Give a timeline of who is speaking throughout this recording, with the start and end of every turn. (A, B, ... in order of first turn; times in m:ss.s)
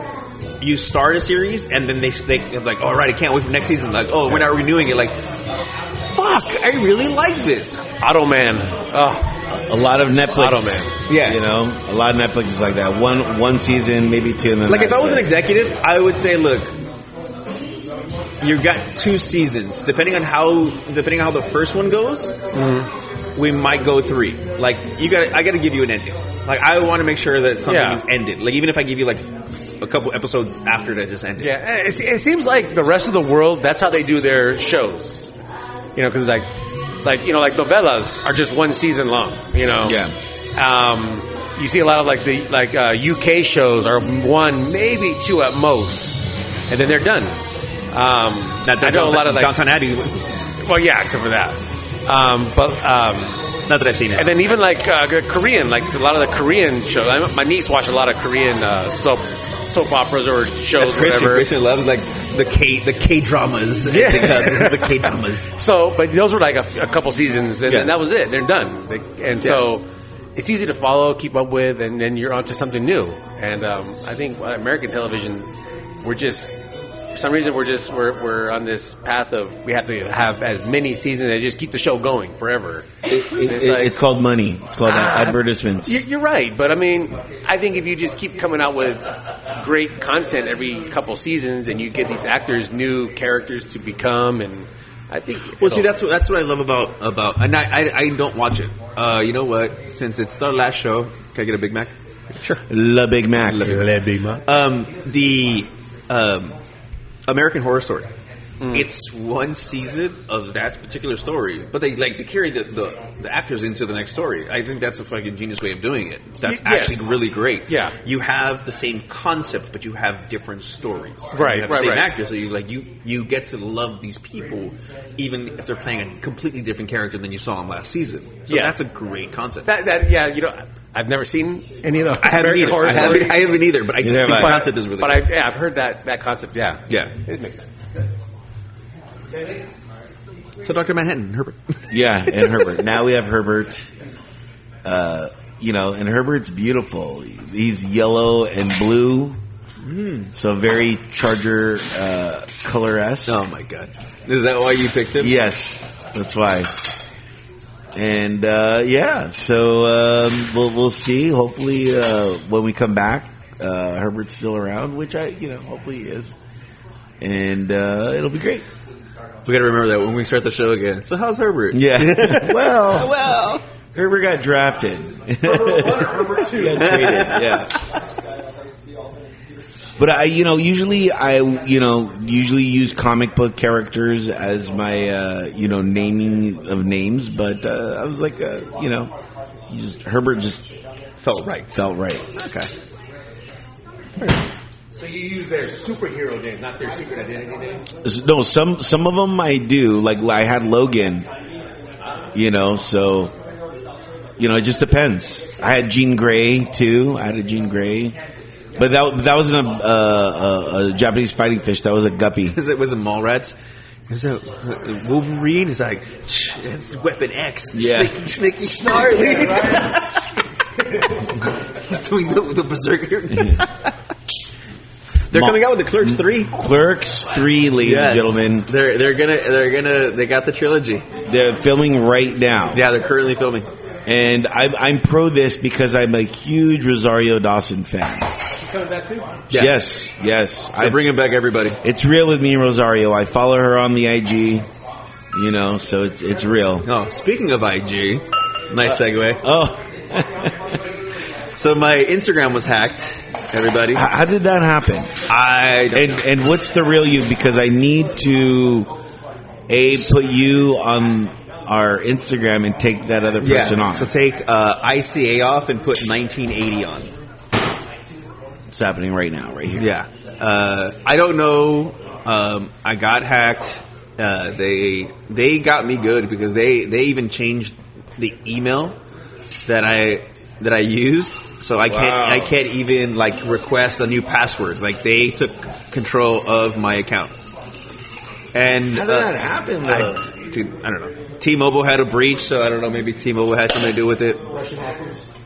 0:00.6-0:05.1 A
0:06.1-0:07.8 A
0:08.0-0:09.3 B
0:09.5-0:15.3 C
0:10.3-0:10.9 B
0:11.1-0:11.4 A
0:14.7-0:16.7 A
0:18.4-0:22.4 A
0:22.5-0:22.9 B
0:23.4-0:31.5 A
0:27.6-0:28.0 B
0:31.4-0:35.3 B
0:36.0-0:36.5 B
0:37.0-0:40.0 B
0:39.8-0:40.1 A
0:40.6-0:47.4 B
0:47.9-0:49.6 B
0:48.6-0:50.3 A
0:50.6-0:53.4 B
0:53.7-0:54.3 A
0:54.1-1:01.5 B
1:00.8-1:05.6 A
1:03.8-1:09.8 B
1:10.4-1:15.5 B
1:16.0-1:16.6 B
1:17.1-1:23.9 B
1:23.0-1:26.0 C
1:24.8-1:35.9 B
1:35.6-1:42.6 A
1:42.7-1:43.8 C
1:43.4-1:43.9 A
1:43.6-1:44.4 B
1:44.4-1:46.6 A
1:47.3-1:48.1 A
1:48.7-2:09.7 A
1:56.4-1:57.2 B
1:57.7-1:57.9 B
2:01.3-2:02.1 B
2:08.5-2:08.7 B
2:09.6-2:13.6 B
2:12.2-2:15.2 A
2:14.0-2:14.7 C
2:14.1-2:17.7 B
2:20.6-2:22.6 A
2:21.9-2:23.9 C
2:24.8-2:29.4 C
2:29.8-2:30.3 A
2:30.3-2:33.4 C
2:33.3-2:35.3 A
2:35.2-2:36.8 C
2:37.9-2:46.3 C
2:47.2-2:48.6 C
2:49.4-2:53.6 A
2:51.7-2:53.1 C
2:53.9-2:57.7 C
2:55.6-2:56.9 B
2:56.7-2:57.8 A
3:00.0-3:09.1 C
3:09.7-3:10.7 C
3:11.2-3:11.8 A
3:11.3-3:12.2 C
3:12.4-3:12.7 A
3:14.9-3:17.8 B
3:18.0-3:21.3 C
3:22.3-3:23.3 C
3:24.4-3:28.2 C
3:28.8-3:32.6 C
3:32.5-3:33.6 A
3:34.1-3:40.3 A
3:37.7-3:38.2 C
3:39.2-3:39.9 B
3:41.0-3:43.9 A
3:43.3-3:43.6 C
3:45.3-3:46.5 A
3:45.3-3:48.7 C
3:47.8-3:51.0 A
3:51.3-3:52.8 C
3:52.7-3:53.7 A
3:54.0-3:58.4 C
3:58.6-3:59.4 B
3:59.5-3:59.7 A
3:59.5-4:01.0 C
4:00.8-4:01.8 A
4:01.8-4:04.6 C
4:05.3-4:06.8 C
4:06.8-4:09.4 A
4:08.8-4:10.8 C
4:11.6-4:14.0 A
4:13.9-4:15.1 C
4:15.3-4:16.2 A
4:15.9-4:18.9 C
4:19.7-4:24.1 C
4:19.8-4:20.1 A
4:23.4-4:27.1 A
4:28.7-4:29.9 C
4:29.7-4:39.0 A
4:39.6-4:47.3 A
4:41.9-4:42.5 C
4:48.5-4:54.4 A
4:48.9-4:50.2 C
4:54.5-4:55.2 B